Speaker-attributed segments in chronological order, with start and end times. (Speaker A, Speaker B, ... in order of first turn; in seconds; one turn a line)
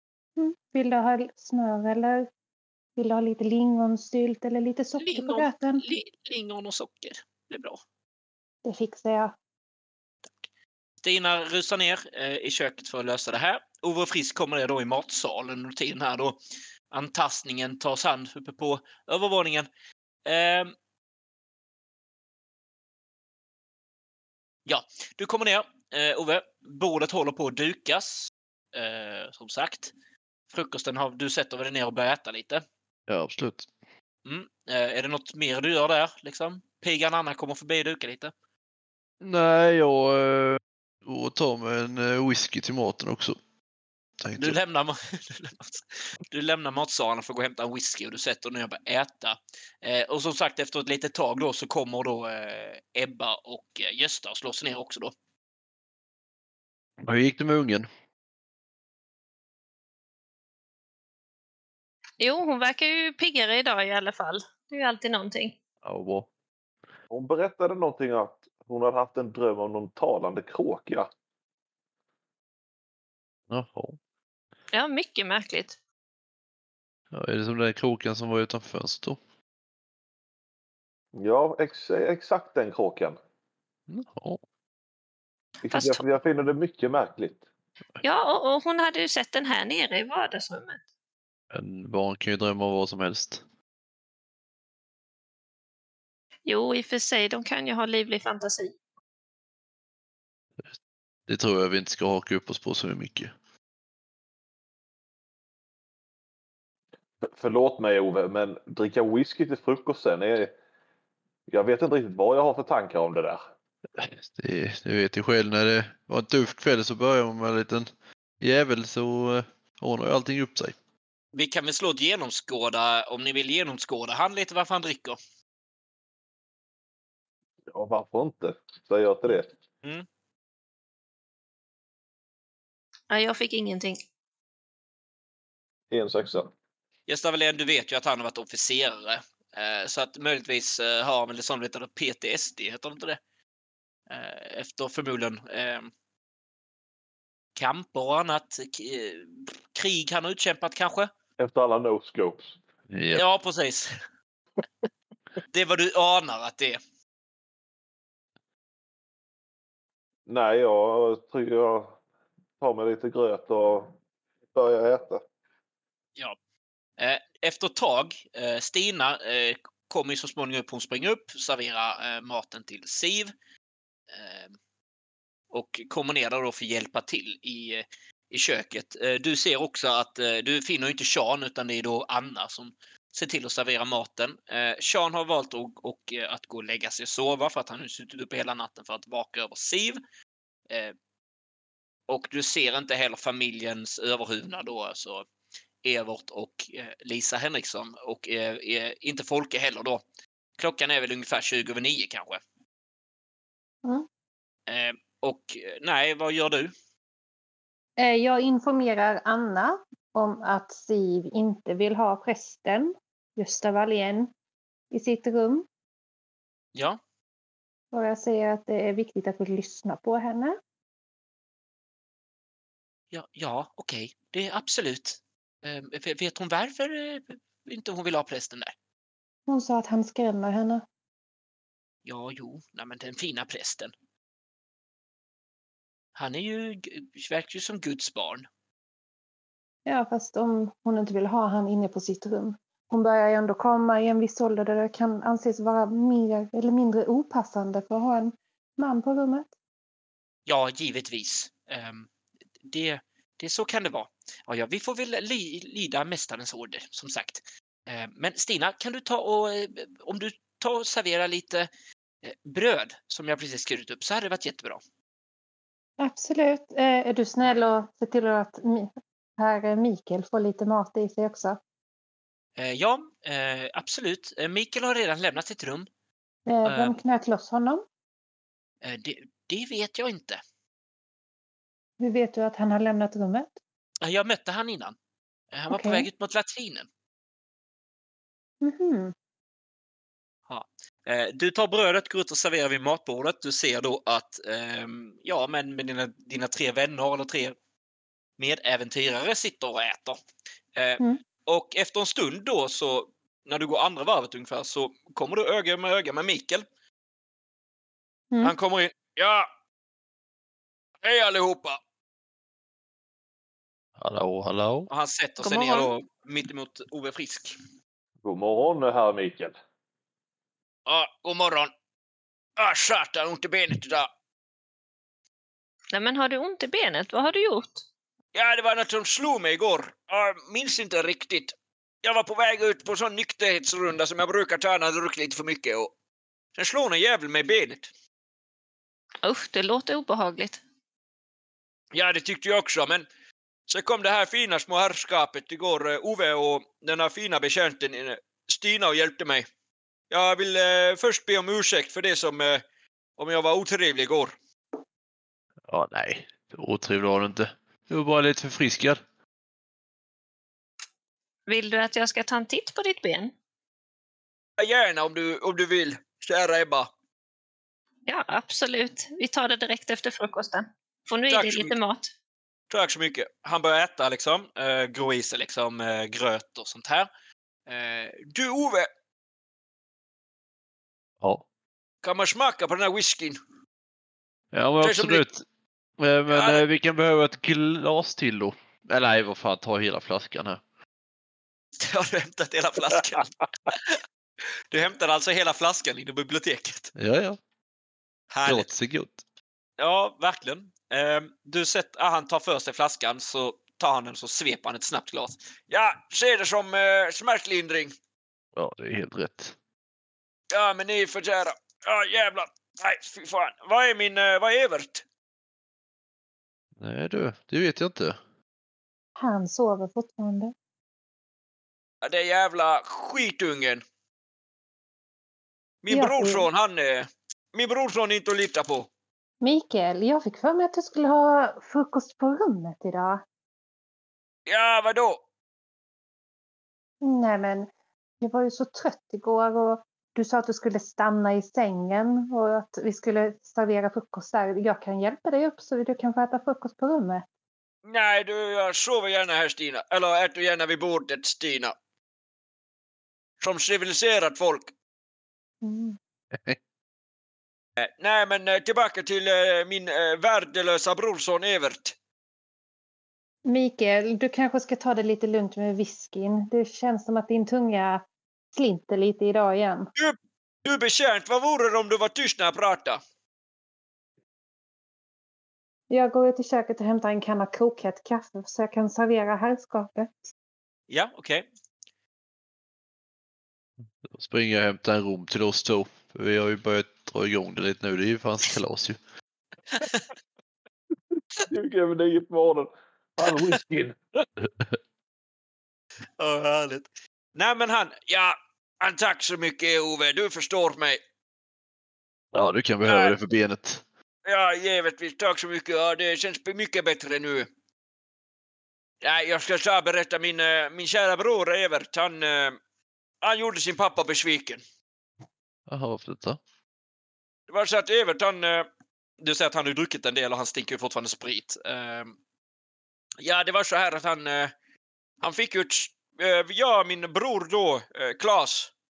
Speaker A: 0.4-2.3
Speaker A: 3.0-5.8
Speaker B: 5.0-7.8
Speaker A: 8.6-9.3
Speaker B: 11.0-16.4
Speaker B: 16.9-19.7
Speaker B: 20.2-20.7
Speaker B: 24.6-29.9
Speaker B: 30.5-32.6
Speaker C: 33.1-33.7
Speaker B: 34.2-38.3
Speaker C: 39.2-43.4
Speaker C: 44.2-44.6
Speaker B: 44.4-55.1
Speaker C: 57.0-57.9
Speaker D: 62.2-65.5
Speaker C: 65.8-66.3
Speaker E: 67.1-71.1
Speaker C: 73.5-74.0
Speaker D: 74.7-75.8
Speaker C: 77.1-79.2
Speaker E: 81.1-83.2
Speaker C: 83.9-84.4
Speaker E: 85.6-87.4
Speaker D: 85.7-86.0
Speaker D: 88.0-90.8
Speaker C: 91.5-93.4
Speaker D: 96.5-98.7
Speaker C: 101.3-103.3
Speaker E: 107.2-110.5
Speaker E: 111.5-113.4
Speaker C: 114.0-117.9
Speaker C: 118.4-120.8
Speaker B: 121.3-125.2
Speaker E: 127.7-129.5
Speaker D: 133.1-134.0
Speaker E: 135.9-136.5
Speaker B: 137.1-143.2
Speaker B: 144.1-145.9
Speaker B: 147.6-151.1
Speaker E: 151.4-152.6
Speaker C: 152.9-153.2
Speaker B: 153.1-153.9
Speaker B: 155.5-156.8
Speaker E: 160.2-162.0
Speaker E: 162.6-163.9
Speaker E: 164.5-165.2
Speaker B: 167.0-173.3
Speaker B: 174.1-174.5
Speaker B: 175.5-190.0
Speaker B: 192.1-195.2
Speaker B: 195.8-200.0
Speaker B: 200.6-202.4
Speaker B: 204.7-206.7
Speaker A: 208.0-214.3
Speaker A: 214.9-215.7
Speaker A: 217.9-220.6
Speaker B: 223.1-228.7
Speaker A: 229.5-230.8
Speaker B: 232.1-233.9
Speaker B: 236.2-238.5
Speaker A: 239.8-249.5
Speaker B: 250.5-252.1
Speaker B: 252.6-261.7
Speaker B: 262.2-264.8
Speaker A: 266.0-271.6
Speaker B: 272.6-275.9
Speaker A: 276.4-277.8
Speaker B: 276.6-277.0
Speaker B: 278.8-280.4
Speaker A: 282.0-283.6
Speaker B: 284.0-284.9
Speaker B: 285.5-286.9
Speaker A: 285.7-286.1
Speaker A: 288.6-289.1
Speaker B: 290.5-297.6
Speaker B: 298.4-300.2
Speaker B: 300.8-306.6
Speaker B: 308.4-309.5
Speaker B: 311.0-311.8
Speaker C: 314.0-314.9
Speaker B: 314.9-317.6
Speaker D: 315.4-315.9
Speaker E: 318.2-319.6
Speaker B: 320.9-321.7
Speaker B: 322.6-324.1
Speaker D: 325.9-327.9
Speaker B: 328.3-335.9
Speaker B: 336.6-337.9
Speaker D: 339.2-340.6
Speaker B: 341.9-343.1
Speaker B: 343.7-349.5
Speaker B: 350.1-352.6
Speaker B: 353.2-354.3
Speaker C: 355.7-359.0
Speaker D: 361.5-363.3
Speaker B: 364.6-366.9
Speaker D: 368.1-372.1
Speaker B: 371.3-371.8
Speaker B: 372.7-377.1
Speaker B: 377.7-378.9
Speaker B: 382.0-383.4
Speaker C: 384.5-385.4
Speaker B: 384.8-385.2
Speaker C: 386.0-390.6
Speaker B: 386.3-386.6
Speaker B: 391.8-393.9
Speaker B: 394.7-396.9
Speaker C: 396.9-397.4
Speaker B: 398.3-398.7
Speaker C: 398.4-399.2
Speaker B: 399.8-407.9
Speaker C: 408.6-409.6
Speaker B: 410.5-415.0
Speaker C: 416.8-418.2
Speaker A: 419.2-420.5
Speaker B: 422.0-423.8
Speaker B: 425.8-428.9
Speaker A: 425.9-426.5
Speaker A: 429.4-433.2
Speaker B: 434.5-435.2
Speaker A: 437.0-437.7
Speaker A: 438.2-447.2
Speaker B: 447.8-451.7
Speaker B: 453.4-454.7
Speaker A: 455.6-456.0
Speaker C: 456.3-456.6
Speaker B: 457.8-461.9
Speaker A: 463.4-468.0
Speaker A: 468.5-469.9
Speaker B: 469.9-473.0
Speaker A: 475.9-480.1
Speaker B: 480.9-481.5
Speaker C: 484.1-489.0
Speaker E: 491.4-494.2
Speaker B: 496.2-501.0
Speaker C: 502.3-503.8
Speaker B: 502.9-503.1
Speaker B: 504.2-507.5
Speaker B: 509.0-512.6
Speaker B: 513.2-514.6
Speaker C: 515.7-516.4
Speaker B: 517.5-518.7
Speaker B: 519.2-522.2
Speaker B: 523.2-524.5
Speaker B: 525.2-528.7